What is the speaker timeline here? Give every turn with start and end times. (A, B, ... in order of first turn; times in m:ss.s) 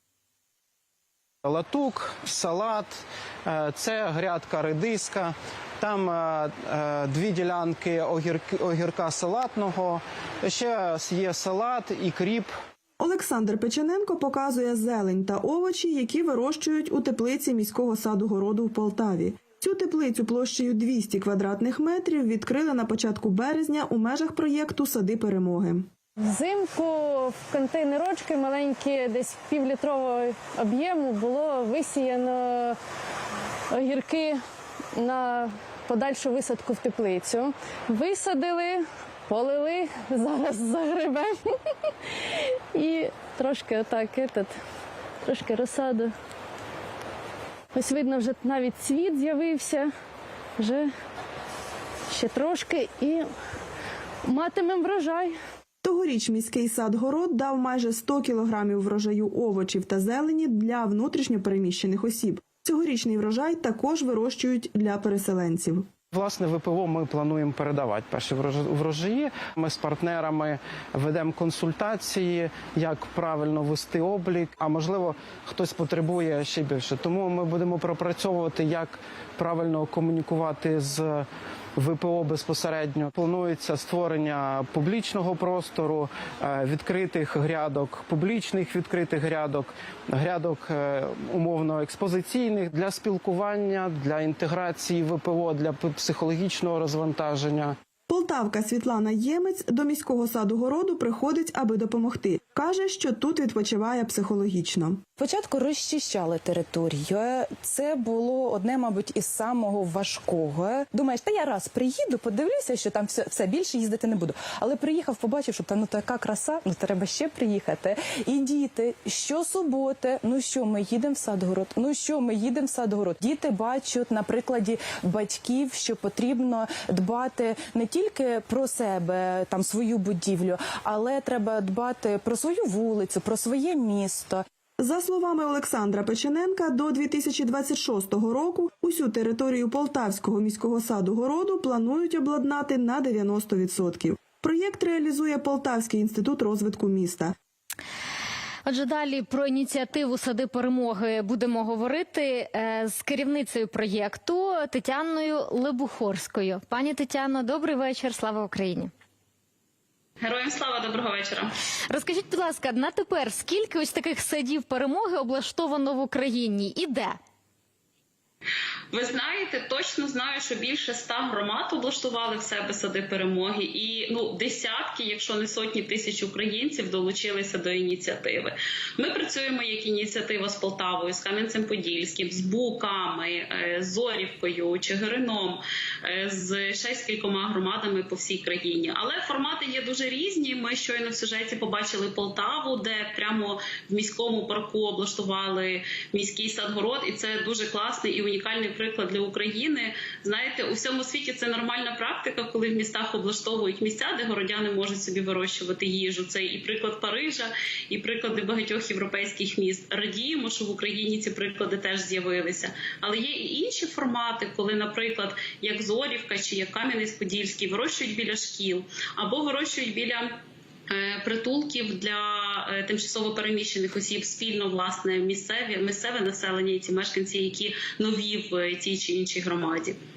0:01.4-0:12.5 A
0:13.0-0:25.9 B
0:26.2-0:32.8 C
0:33.7-0:34.4 C
0:34.9-0:41.9 C
0:42.7-0:44.6 C
0:45.2-0:46.1 C
0:47.7-0:49.9 C
0:50.6-0:50.9 C
0:52.1-0:53.3 C
0:54.2-0:55.4 C
0:55.8-1:05.9 B
1:06.1-1:37.8 A
1:38.1-1:45.0 B
1:45.2-2:14.4 D
2:14.8-2:27.4 B
2:28.6-2:38.9 E
2:40.2-2:41.5 F
2:41.9-2:47.2 E
2:48.9-3:40.3 F
3:40.9-3:50.0 F